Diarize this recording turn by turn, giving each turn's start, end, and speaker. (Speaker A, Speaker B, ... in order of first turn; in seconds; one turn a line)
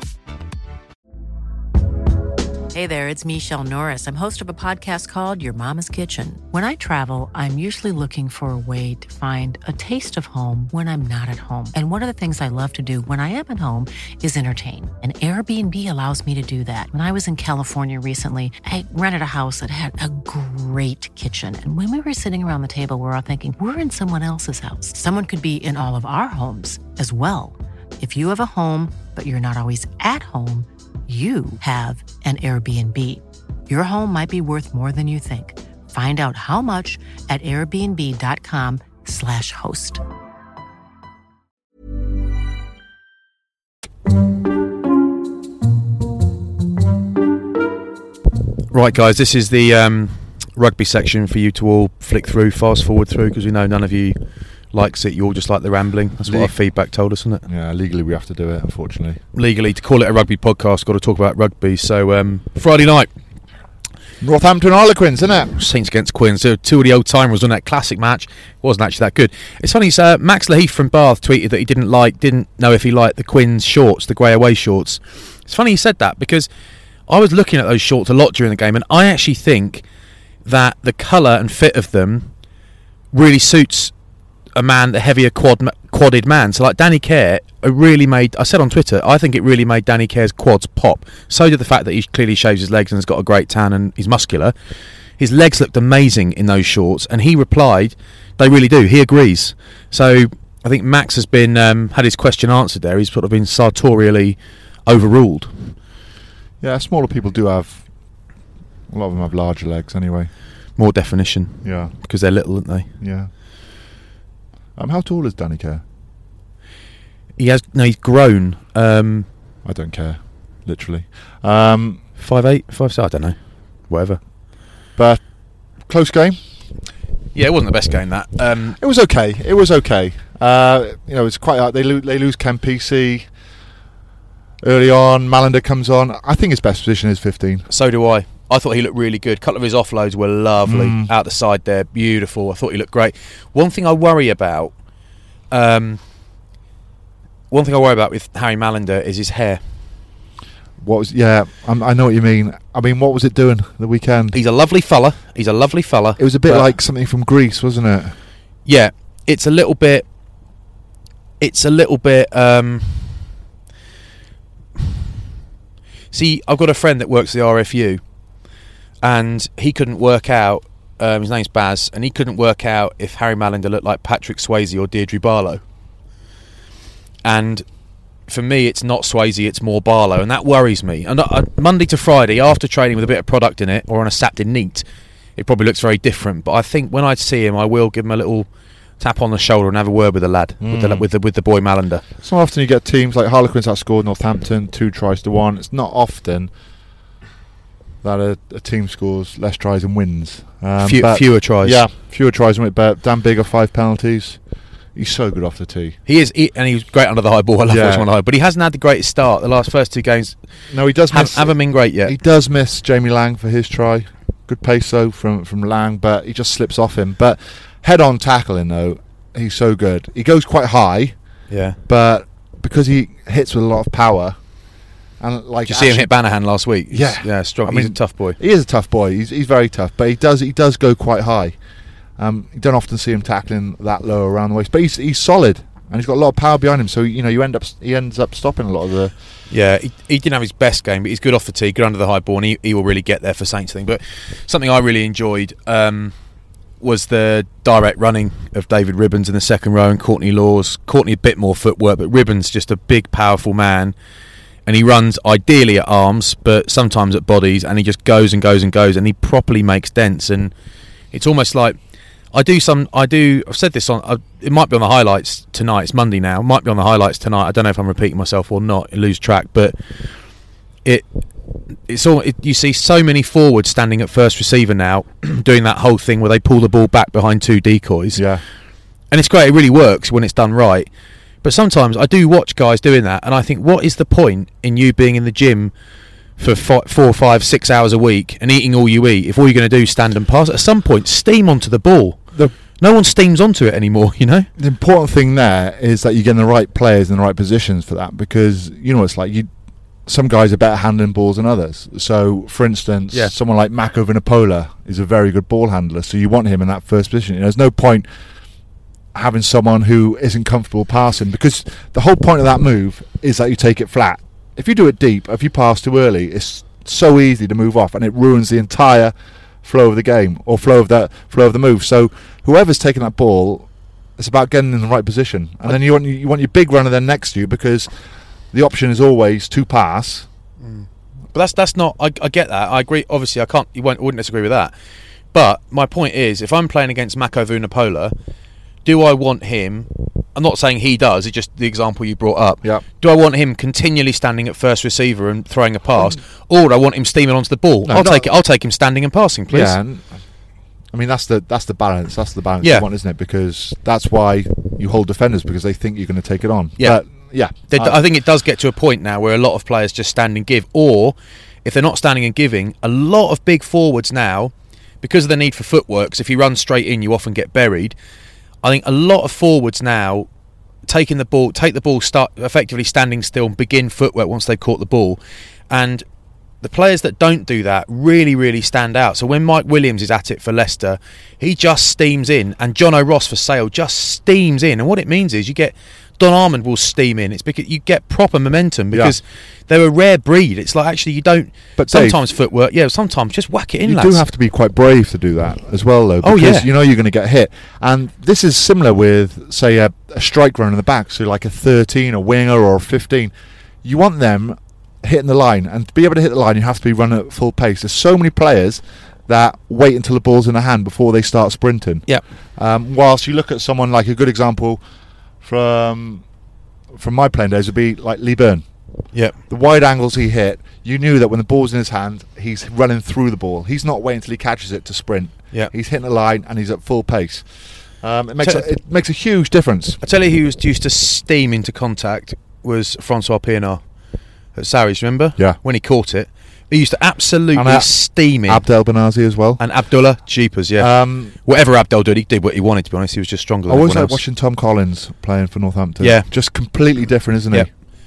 Speaker A: 2.7-40.0
Speaker B: 48.7-54.2
Speaker B: 54.7-57.4
Speaker C: 56.2-56.5
Speaker C: 57.5-59.2
Speaker B: 59.4-63.1
Speaker C: 64.2-65.5
Speaker B: 65.5-76.5
Speaker B: 77.1-79.8
Speaker B: 80.5-82.3
Speaker B: 83.1-83.9
Speaker B: 84.5-94.5
Speaker B: 95.2-105.7
Speaker C: 106.6-107.8
Speaker C: 108.9-110.3
Speaker B: 110.8-112.9
Speaker C: 111.6-111.9
Speaker C: 113.0-113.3
Speaker C: 114.8-115.8
Speaker B: 117.4-119.3
Speaker C: 119.7-122.0
Speaker B: 122.2-123.4
Speaker B: 123.9-124.2
Speaker C: 125.0-125.2
Speaker C: 125.8-126.4
Speaker B: 127.3-128.8
Speaker C: 128.8-133.3
Speaker C: 134.6-137.7
Speaker B: 137.7-144.7
Speaker C: 140.6-141.1
Speaker B: 145.5-146.0
Speaker B: 147.5-149.6
Speaker C: 150.8-154.4
Speaker B: 154.3-156.7
Speaker C: 156.2-158.2
Speaker B: 158.7-160.1
Speaker B: 161.4-163.2
Speaker B: 166.1-168.0
Speaker B: 169.0-175.6
Speaker B: 177.2-177.7
Speaker B: 178.3-184.8
Speaker B: 185.4-188.5
Speaker B: 189.0-192.0
Speaker C: 190.6-191.1
Speaker C: 192.2-196.5
Speaker C: 198.0-204.4
Speaker B: 200.8-201.8
Speaker C: 204.9-206.0
Speaker B: 206.1-210.4
Speaker C: 207.7-208.1
Speaker C: 210.7-221.2
Speaker B: 211.1-212.2
Speaker B: 221.5-221.8
Speaker C: 221.9-224.4
Speaker C: 225.2-226.1
Speaker B: 225.7-228.4
Speaker C: 226.9-231.6
Speaker C: 232.2-239.1
Speaker B: 239.5-246.1
Speaker B: 246.8-253.9
Speaker B: 254.7-260.5
Speaker B: 261.1-261.8
Speaker B: 262.3-269.8
Speaker B: 271.9-278.2
Speaker C: 278.1-278.4
Speaker B: 279.1-280.9
Speaker B: 281.4-285.7
Speaker B: 286.4-294.5
Speaker C: 294.6-299.5
Speaker C: 300.1-308.1
Speaker C: 309.1-319.1
Speaker C: 319.6-327.9
Speaker C: 328.5-330.3
Speaker B: 330.6-334.7
Speaker B: 335.3-338.1
Speaker B: 338.9-349.8
Speaker C: 347.9-348.3
Speaker C: 349.5-350.1
Speaker C: 350.9-358.0
Speaker B: 357.7-368.0
Speaker B: 368.6-370.3
Speaker B: 370.9-376.1
Speaker B: 376.6-394.2
Speaker C: 388.9-389.2
Speaker C: 391.8-392.2
Speaker C: 393.9-403.3
Speaker B: 396.2-396.7
Speaker C: 403.8-412.1
Speaker C: 412.6-414.8
Speaker C: 415.4-416.2
Speaker C: 416.9-418.6
Speaker C: 419.5-427.5
Speaker C: 428.0-430.0
Speaker B: 428.4-428.7
Speaker B: 430.0-433.8
Speaker B: 434.6-438.6
Speaker C: 437.6-437.9
Speaker C: 438.4-439.6
Speaker B: 439.6-440.9
Speaker C: 440.8-441.4
Speaker B: 441.4-444.2
Speaker C: 443.7-447.7
Speaker B: 446.0-446.3